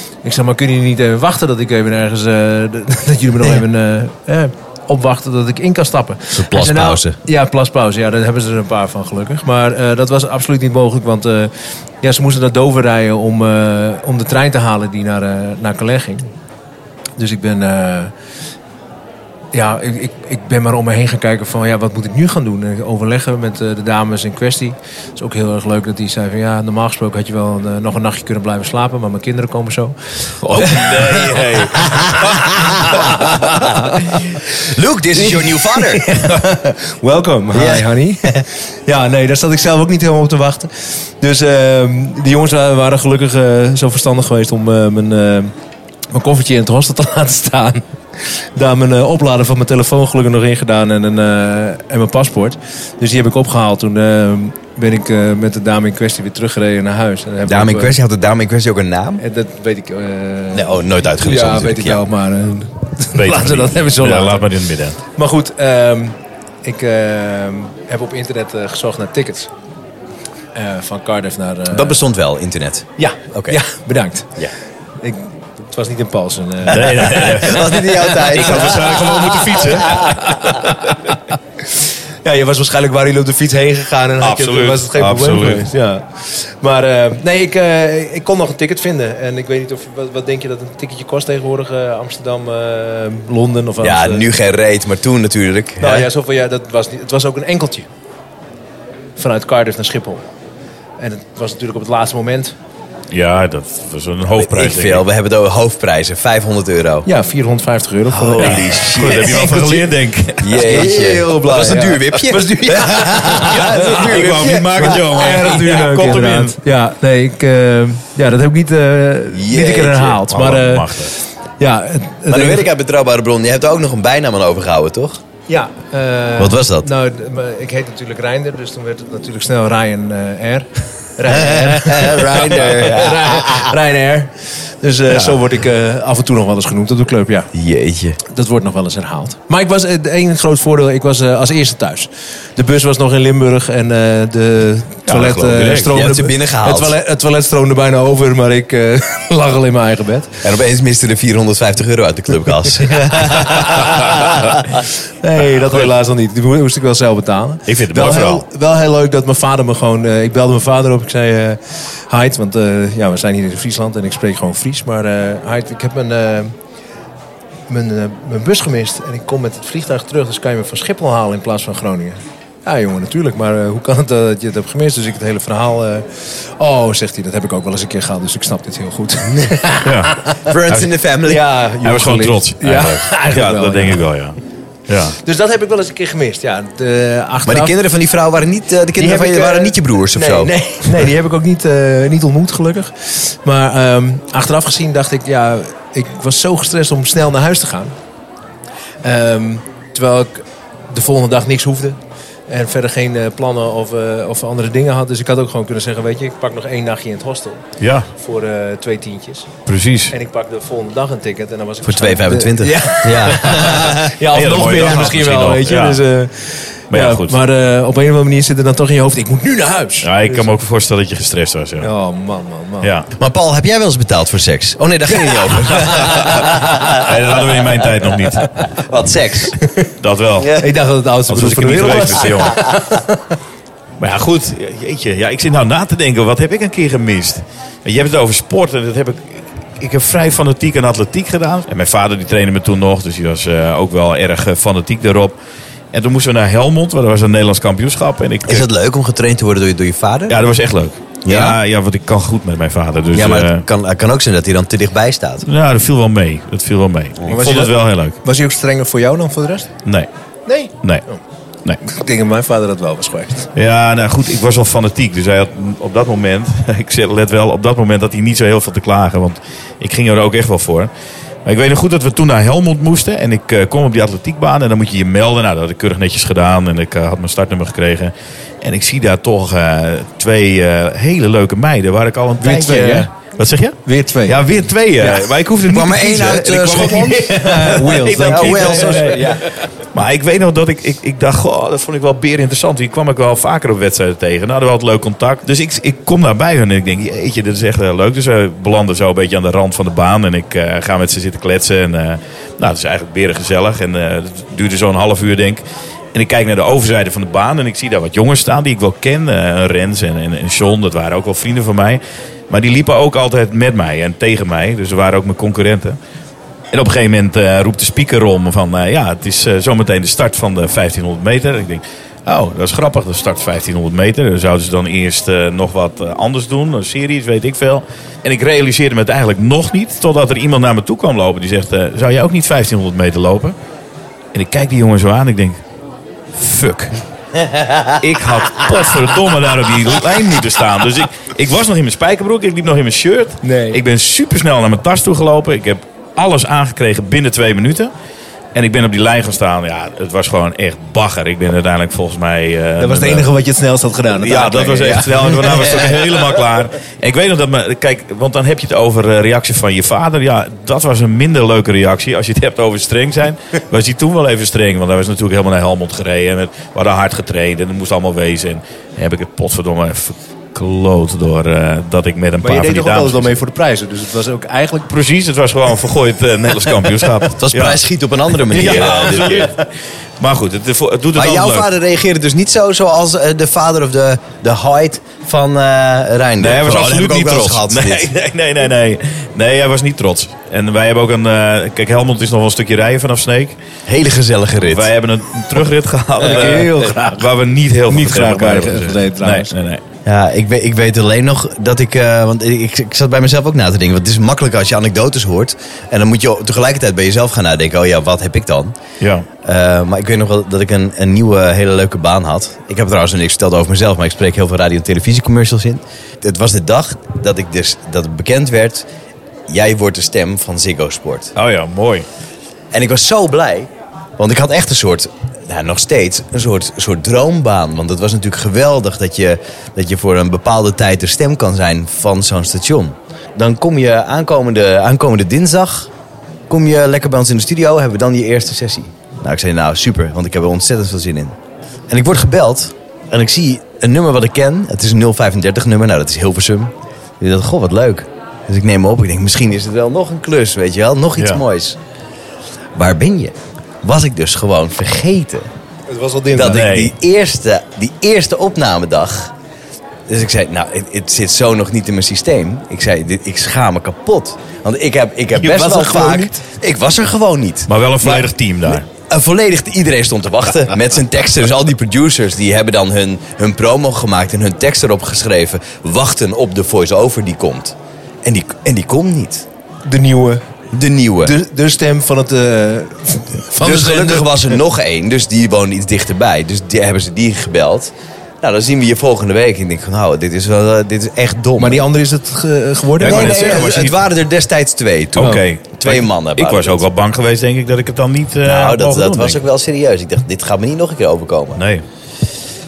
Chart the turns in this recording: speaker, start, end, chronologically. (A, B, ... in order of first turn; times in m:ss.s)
0:00.2-0:16.3 A
0:06.3-0:07.2 B
0:17.2-0:18.1 A
0:19.5-0:31.6 A
0:30.4-0:33.1 C
0:31.8-0:33.6 B
0:32.7-0:34.2 A
0:34.5-0:36.2 B
0:35.2-0:40.7 A
0:37.5-0:38.4 B
0:41.2-0:45.5 A
0:46.1-0:58.0 A
0:57.4-0:59.2 B
0:59.2-1:04.5 A
1:00.5-1:02.0 B
1:03.2-1:05.0 C
1:05.2-1:09.5 A
1:10.5-1:12.0 A
1:11.7-1:13.6 B
1:13.0-1:14.4 A
1:15.0-1:21.2 A
1:16.7-1:20.3 C
1:16.7-1:20.1 B
1:22.2-1:34.3 A
1:24.2-1:25.7 C
1:33.8-1:36.1 B
1:35.8-1:37.9 A
1:39.2-1:40.3 A
1:41.0-1:42.6 A
1:43.1-1:45.0 C
1:44.3-1:47.1 B
1:47.0-1:49.9 A
1:48.1-1:49.6 B
1:48.4-1:50.9 C
1:50.4-1:55.6 B
1:50.5-2:01.0 A
1:53.4-1:56.6 C
1:59.3-2:00.2 B
2:00.3-2:01.1 C
2:01.6-2:02.7 A
2:02.3-2:05.2 B
2:05.5-2:17.5 A
2:06.4-2:06.9 B
2:11.3-2:13.7 B
2:17.5-2:18.2 B
2:18.2-2:30.4 A
2:25.1-2:25.9 C
2:25.9-2:26.9 B
2:30.4-2:34.7 B
2:32.8-2:34.3 A
2:35.2-2:46.5 A
2:37.7-2:38.4 C
2:47.7-3:00.5 A
2:59.8-3:00.9 C
3:00.5-3:01.4 B
3:01.3-3:04.0 A
3:01.8-3:04.4 C
3:04.9-3:05.2 C
3:05.2-3:07.8 A
3:07.5-3:10.5 B
3:09.0-3:18.0 A
3:19.0-3:29.5 A
3:27.8-3:28.1 C
3:29.7-3:30.1 C
3:30.1-3:40.5 A
3:31.8-3:34.1 B
3:34.3-3:36.0 C
3:36.9-3:37.4 C
3:40.0-3:41.9 C
3:41.8-3:42.9 A
3:42.8-3:43.1 C
3:43.2-3:47.9 B
3:45.7-3:46.6 A
3:46.0-3:46.4 C
3:46.9-3:48.7 C
3:48.6-3:49.6 B
3:49.6-3:49.9 A
3:50.0-3:50.5 C
3:50.4-3:50.7 B
3:50.6-3:53.2 A
3:51.3-3:52.6 C
3:54.0-4:05.4 C
4:05.9-4:08.7 C
4:08.5-4:10.4 B
4:10.3-4:13.6 C
4:11.2-4:11.6 B
4:13.1-4:15.5 B
4:15.4-4:18.2 C
4:17.3-4:19.7 A
4:20.5-4:21.2 A
4:21.8-4:23.5 A
4:23.6-4:30.9 C
4:31.4-4:49.4 C
4:42.4-4:43.1 A
4:43.9-4:44.6 A
4:45.7-4:49.5 B
4:47.1-4:49.4 A
4:49.9-5:05.6 C
5:06.1-5:16.0 C
5:16.7-5:33.6 C
5:34.3-5:35.6 C
5:36.4-5:37.0 C
5:37.4-5:38.0 B
5:38.0-5:47.9 C
5:43.4-5:43.8 A
5:48.5-5:53.3 C
5:52.8-5:55.7 A
5:54.1-6:13.4 C
6:12.4-6:14.9 A
6:14.9-6:17.8 C
6:17.3-6:19.5 B
6:18.4-6:19.7 C
6:20.2-6:21.7 C
6:21.2-6:28.1 B
6:26.4-6:33.6 C
6:33.9-6:34.9 B
6:34.7-6:39.8 C
6:36.2-6:37.3 A
6:37.9-6:39.5 A
6:40.0-6:48.8 B
6:49.0-6:49.3 C
6:49.4-6:58.9 B
6:59.5-7:01.3 B
7:01.4-7:02.1 C
7:02.7-7:15.9 B
7:16.5-7:21.4 B
7:21.9-7:31.8 B
7:32.8-7:35.5 B
7:35.9-7:36.7 A
7:36.3-7:39.3 B
7:36.4-7:36.9 C
7:40.1-7:59.5 B
7:45.3-7:46.4 A
7:47.7-7:48.8 C
7:59.8-8:00.4 A
8:00.7-8:01.4 B
8:01.2-8:04.6 A
8:03.6-8:11.8 B
8:11.6-8:13.6 A
8:13.0-8:14.0 C
8:13.0-8:16.8 B
8:15.2-8:19.4 C
8:18.4-8:21.6 B
8:21.6-8:21.8 C